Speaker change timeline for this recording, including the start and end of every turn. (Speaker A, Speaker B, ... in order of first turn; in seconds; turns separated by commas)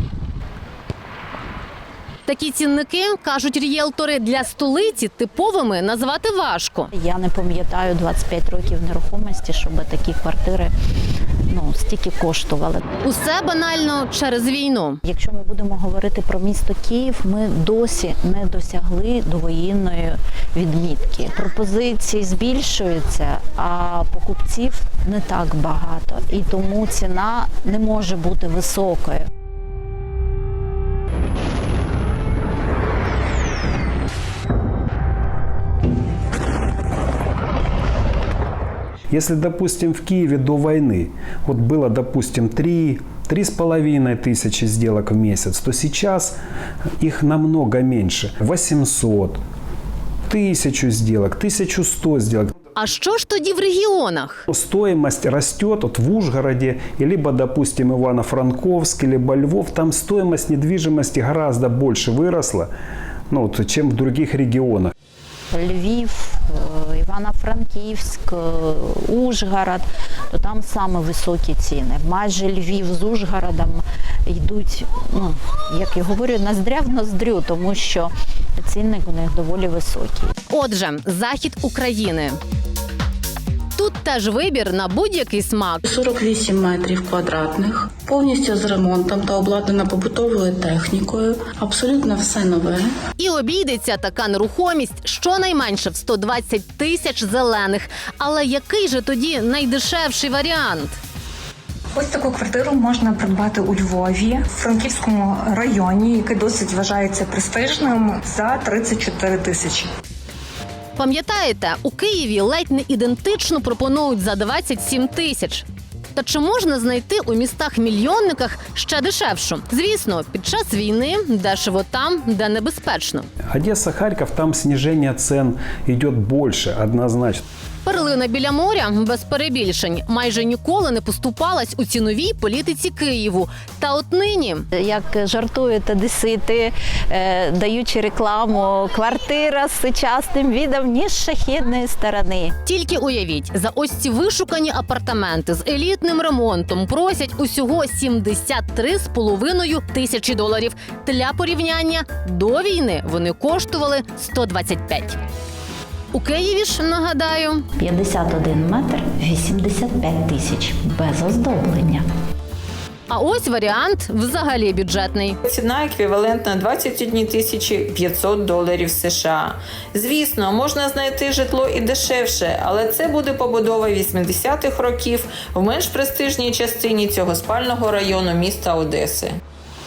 Speaker A: 2.3-6.9, Speaker B: 6.9-10.7, Speaker B: 11.5-12.8, Speaker A: 13.0-15.0, Speaker B: 15.0-29.3, Speaker C: 39.1-46.4, Speaker C: 47.0-49.4, Speaker C: 50.3-52.5, Speaker A: 52.8-54.4, Speaker C: 54.5-62.7, Speaker C: 63.3-64.9, Speaker B: 65.5-80.3, Speaker A: 80.5-82.4, Speaker A: 83.8-85.8, Speaker D: 85.8-92.9, Speaker A: 93.2-100.9, Speaker E: 101.9-109.9, Speaker A: 111.0-123.2, Speaker C: 123.5-127.4, Speaker A: 127.8-134.7, Speaker B: 134.7-142.6, Speaker A: 142.6-155.2, Speaker A: 156.1-157.6, Speaker B: 157.8-162.0, Speaker A: 163.1-165.4, Speaker F: 165.4-179.4